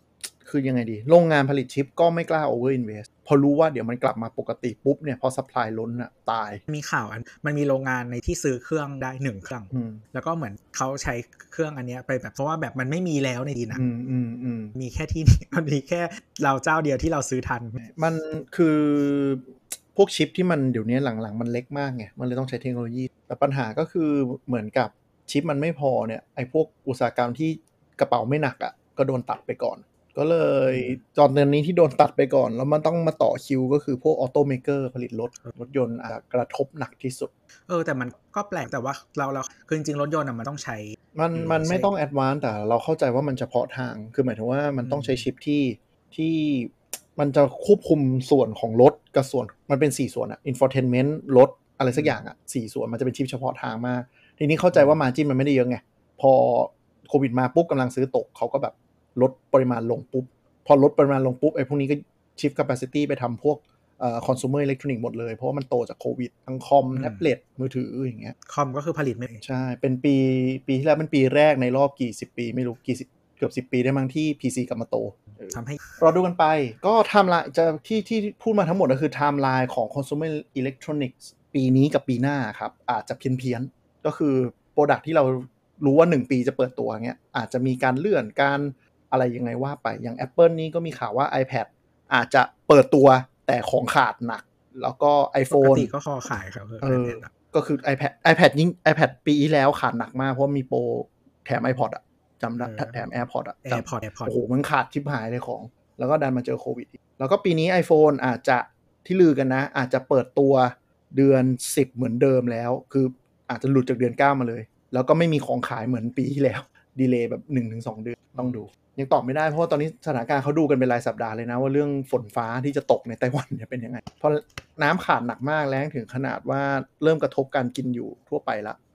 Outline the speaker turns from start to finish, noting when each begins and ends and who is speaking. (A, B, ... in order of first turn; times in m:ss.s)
0:00.4-0:06.6 A
0:06.7-0:13.8 B
0:09.7-0:10.0 A
0:13.7-0:14.7 A
0:14.8-0:17.8 B
0:17.8-0:37.3 A
0:37.7-0:41.9 B
0:41.2-1:08.4 A
0:44.8-0:45.2 B
1:07.0-1:07.2 B
1:08.5-1:09.4 B
1:09.4-1:35.9 A
1:15.5-1:15.8 B
1:35.5-1:37.3 B
1:36.8-2:08.8 A
1:42.6-1:43.0 B
1:43.6-1:44.4 B